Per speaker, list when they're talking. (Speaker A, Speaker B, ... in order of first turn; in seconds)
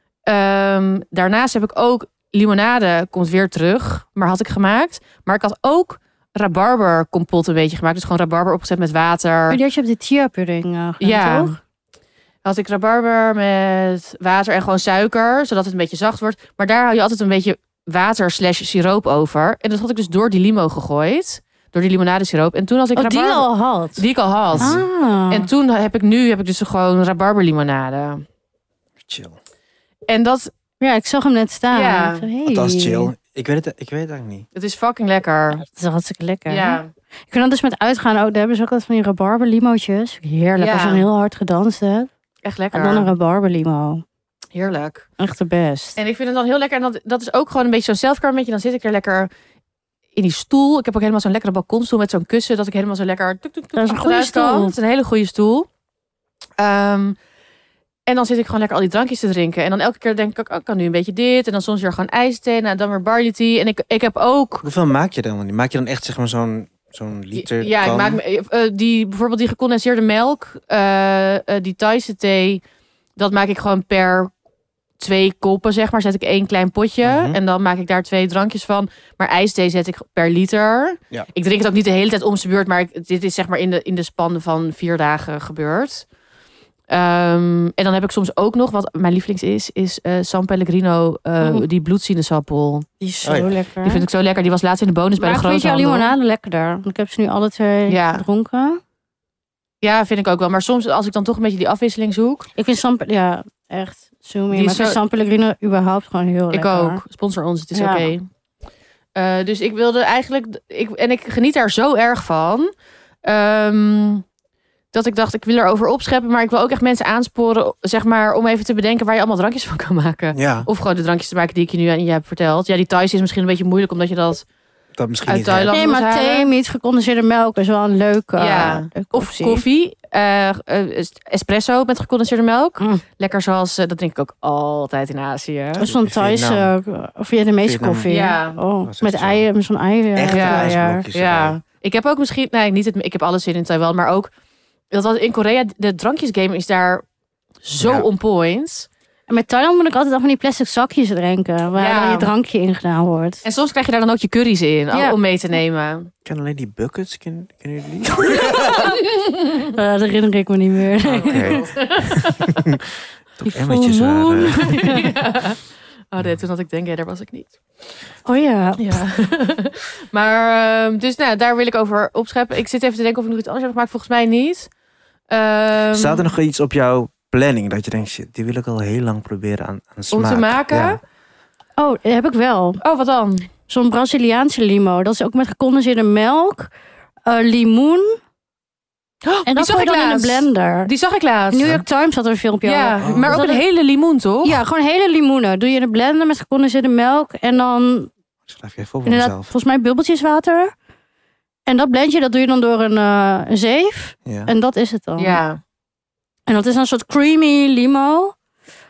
Speaker A: 0.3-9.6, 11.0-11.6, 12.4-28.2, 30.1-30.5, 31.7-32.2, 34.5-35.6, 36.5-36.9, 40.6-41.0, 42.4-43.1, 44.5-45.1, 46.0-49.3, 50.1-55.7, 56.6-57.1, 58.1-64.6, 67.3-72.6, 73.2-74.3, 75.0-86.0, 86.9-92.8, 93.8-96.1, 97.9-98.2, 99.8-102.5, 104.5-105.0, 106.5-108.3, 109.1-112.7, 113.2-114.2, 114.9-124.4, 125.3-126.5, 128.4-135.9, 138.1-138.6, 140.3-144.3, 144.9-147.0, 147.6-148.9, 151.8-152.3, 153.4-156.1, 158.7-159.7, 161.0-162.7, 164.6-165.6, 166.1-167.6, 168.8-174.7, 175.3-176.3, 180.1-181.0, 182.8-183.5, 189.2-191.7, 192.6-194.6, 205.2-205.6
Speaker B: 9.5-11.6, 22.9-24.0, 24.6-25.5, 30.8-33.1, 35.6-42.1, 42.7-44.0, 45.2-46.0, 53.8-54.7, 91.4-91.7, 93.0-94.0, 95.2-98.8, 102.6-107.0, 107.7-108.1, 125.7-129.6, 135.8-141.1, 149.3-153.4, 158.5-159.0, 159.6-161.6, 163.4-165.1, 168.2-169.0, 181.8-182.8, 183.7-186.7, 187.2-188.2, 189.5-190.9, 191.5-193.6, 194.4-198.1, 199.1-200.7, 201.7-205.4, 206.5-208.3
Speaker C: 24.5-24.9, 29.0-29.4, 32.4-34.5, 64.6-68.2, 77.0-77.4, 93.2-93.5, 120.3-120.7, 125.0-125.7, 135.8-136.7, 137.6-138.1, 138.8-139.4, 140.1-141.6, 147.8-148.1, 156.2-158.9, 161.2-162.8, 163.4-164.8, 175.9-181.0, 193.0-193.4, 198.5-199.5, 204.2-204.5